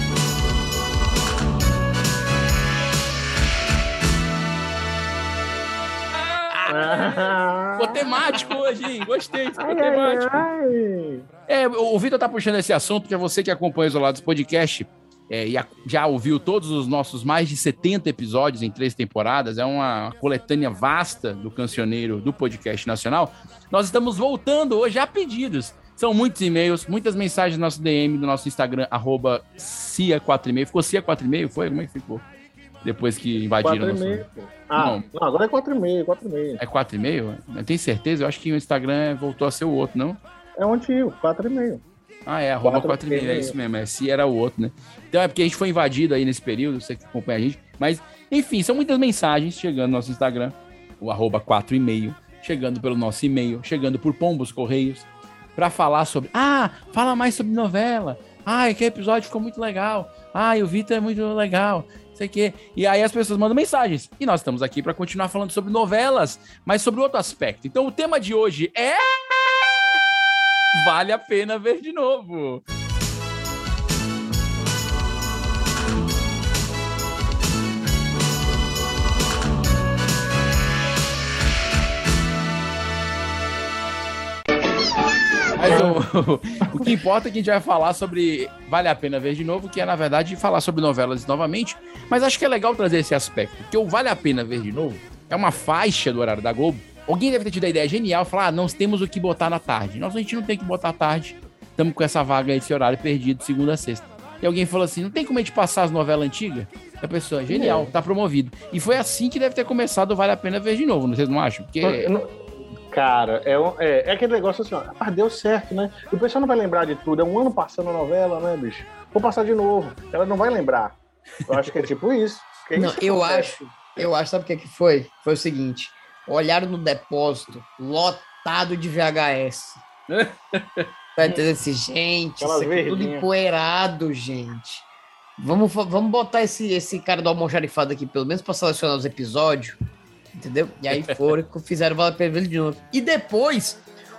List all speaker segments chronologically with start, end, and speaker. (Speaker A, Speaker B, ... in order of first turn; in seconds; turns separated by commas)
Speaker A: 6.4-7.1, Speaker B: 6.7-8.4, Speaker A: 7.8-10.5, Speaker B: 9.6-11.3, Speaker A: 11.5-32.2, Speaker A: 32.8-34.2, Speaker B: 33.6-36.6, Speaker A: 34.8-35.0, Speaker A: 36.6-40.2, Speaker B: 40.6-41.8, Speaker A: 42.3-69.1, Speaker B: 42.6-43.5, Speaker A: 70.7-72.6, Speaker A: 85.6-112.1, Speaker B: 85.6-85.9, Speaker B: 107.5-107.9, Speaker B: 111.8-112.4, Speaker B: 112.9-121.0, Speaker B: 121.5-123.5, Speaker C: 122.8-129.8, Speaker A: 130.1-130.9, Speaker C: 131.2-134.9, Speaker B: 132.4-133.3, Speaker C: 135.4-139.8, Speaker C: 140.3-143.8